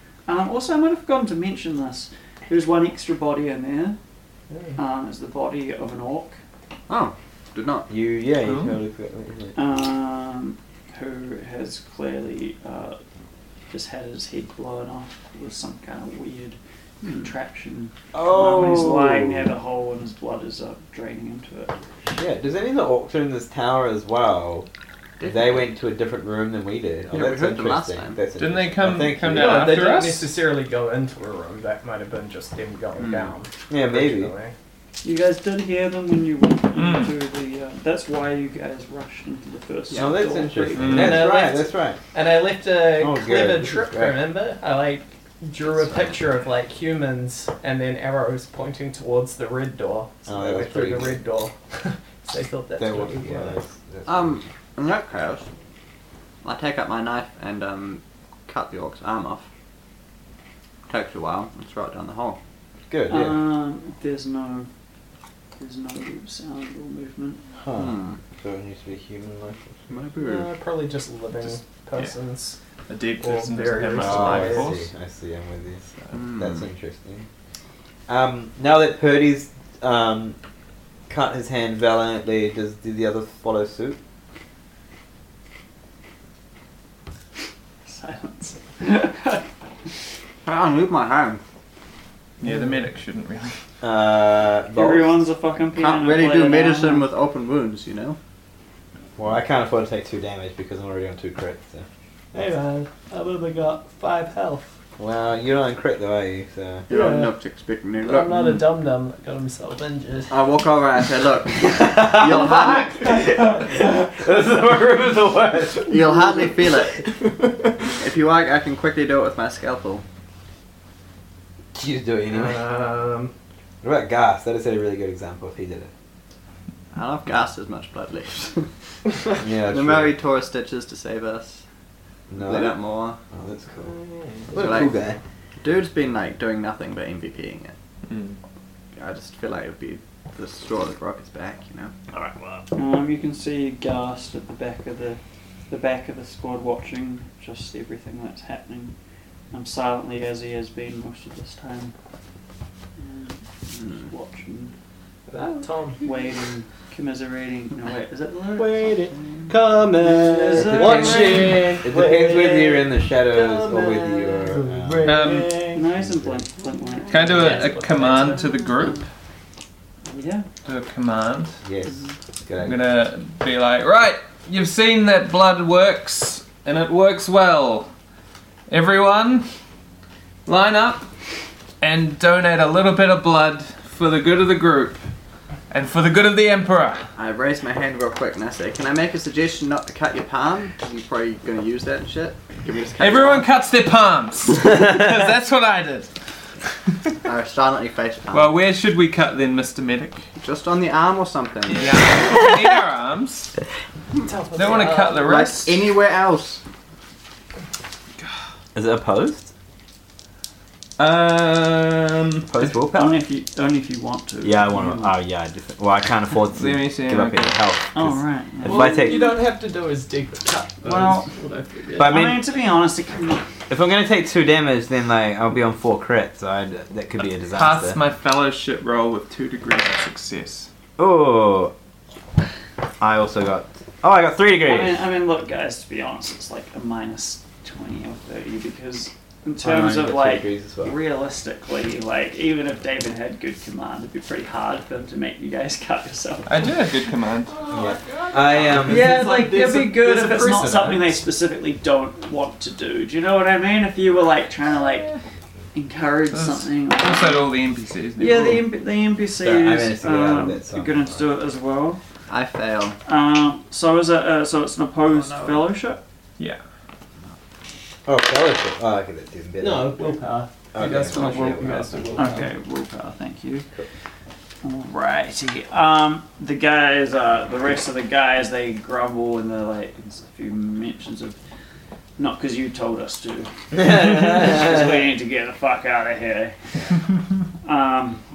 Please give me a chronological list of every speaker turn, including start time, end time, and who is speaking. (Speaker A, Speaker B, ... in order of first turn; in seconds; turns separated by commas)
Speaker A: 0.3-4.0, Speaker B: 4.5-4.8, Speaker A: 4.8-6.4, Speaker C: 6.9-7.9, Speaker D: 7.9-9.6, Speaker E: 8.4-8.8, Speaker A: 9.6-13.0, Speaker A: 13.7-16.6, Speaker C: 17.0-17.3, Speaker A: 17.1-21.8, Speaker D: 18.1-19.5, Speaker D: 22.1-24.7, Speaker C: 25.2-25.7, Speaker D: 25.2-29.8, Speaker C: 27.1-28.2, Speaker E: 28.4-30.3, Speaker B: 29.3-34.5, Speaker C: 33.0-33.3, Speaker D: 33.7-34.3, Speaker A: 35.0-41.1, Speaker E: 36.7-37.1, Speaker D: 39.9-42.0, Speaker E: 40.8-41.3, Speaker B: 40.9-53.6, Speaker D: 43.0-44.3, Speaker D: 50.3-51.2, Speaker D: 52.8-54.4, Speaker C: 54.1-55.5, Speaker C: 56.4-59.5, Speaker C: 60.9-62.4, Speaker D: 62.9-63.4, Speaker A: 63.1-64.7, Speaker A: 65.6-67.4, Speaker D: 67.6-69.8, Speaker C: 67.7-68.2, Speaker C: 69.9-70.5, Speaker B: 70.2-72.6, Speaker E: 72.9-74.9, Speaker B: 73.2-74.7, Speaker D: 73.9-77.3, Speaker C: 76.1-76.7, Speaker D: 78.1-80.4, Speaker D: 81.1-84.0, Speaker A: 87.9-89.5, Speaker C: 90.4-91.4, Speaker E: 92.4-93.6, Speaker D: 93.8-95.2, Speaker A: 94.7-97.1, Speaker C: 95.8-98.2, Speaker D: 99.2-102.5, Speaker B: 102.3-104.7, Speaker D: 105.0-106.9, Speaker C: 106.9-108.4, Speaker B: 106.9-107.3, Speaker B: 108.0-110.5, Speaker E: 108.3-108.6, Speaker C: 110.3-113.1, Speaker D: 111.6-116.2, Speaker B: 112.4-113.4, Speaker C: 115.9-117.1, Speaker C: 118.0-120.0, Speaker D: 121.8-122.8, Speaker B: 122.3-123.3, Speaker D: 123.8-125.9, Speaker C: 126.9-128.7, Speaker D: 129.4-130.2, Speaker C: 129.6-131.6, Speaker D: 132.3-132.8, Speaker C: 132.3-133.2, Speaker D: 133.3-134.0, Speaker B: 133.8-134.8, Speaker D: 134.5-135.2, Speaker C: 134.5-135.0, Speaker C: 135.6-137.8, Speaker E: 138.1-138.4, Speaker C: 138.9-141.9, Speaker D: 142.1-142.6, Speaker A: 142.7-148.9, Speaker A: 149.5-151.9, Speaker A: 153.0-154.7, Speaker B: 155.3-156.1, Speaker A: 156.0-159.2, Speaker B: 158.6-165.9, Speaker A: 160.0-161.6, Speaker D: 160.6-165.3, Speaker E: 165.0-165.7, Speaker A: 165.7-169.1, Speaker D: 165.9-166.5, Speaker B: 167.1-168.5, Speaker E: 167.1-169.1, Speaker A: 170.1-170.5, Speaker E: 170.7-171.6, Speaker D: 171.6-172.8, Speaker A: 171.9-172.1, Speaker E: 172.6-177.9, Speaker E: 178.7-179.5, Speaker E: 180.5-181.1, Speaker E: 181.8-185.0, Speaker E: 185.7-187.1, Speaker C: 187.2-193.5, Speaker E: 193.0-196.1, Speaker C: 197.2-198.6, Speaker E: 198.3-200.2, Speaker C: 200.4-201.9, Speaker E: 201.7-203.5, Speaker B: 204.2-205.3, Speaker E: 204.6-205.9, Speaker C: 205.1-206.6, Speaker D: 208.8-209.5, Speaker E: 211.0-212.8, Speaker D: 212.5-213.2, Speaker A: 212.9-215.1, Speaker D: 214.4-219.3, Speaker E: 216.5-217.6, Speaker A: 217.9-219.3, Speaker B: 218.6-222.2, Speaker A: 220.8-221.3, Speaker D: 221.9-222.4, Speaker A: 222.0-223.4, Speaker D: 223.7-228.0, Speaker E: 227.4-230.7, Speaker D: 231.0-231.7, Speaker D: 233.0-235.0, Speaker A: 234.6-246.7, Speaker D: 239.6-240.9, Speaker E: 246.5-247.6, Speaker B: 247.5-251.2, Speaker D: 247.7-249.2, Speaker A: 248.8-255.1, Speaker A: 255.7-257.5, Speaker E: 256.3-258.6, Speaker A: 258.2-262.0, Speaker D: 259.4-261.3, Speaker C: 262.3-263.0, Speaker A: 263.1-266.0, Speaker C: 265.1-265.7, Speaker D: 268.1-270.2, Speaker B: 269.6-272.5, Speaker D: 270.7-272.4, Speaker A: 272.2-273.7, Speaker A: 274.6-281.4, Speaker A: 282.2-286.6, Speaker D: 283.7-285.1, Speaker A: 287.6-288.2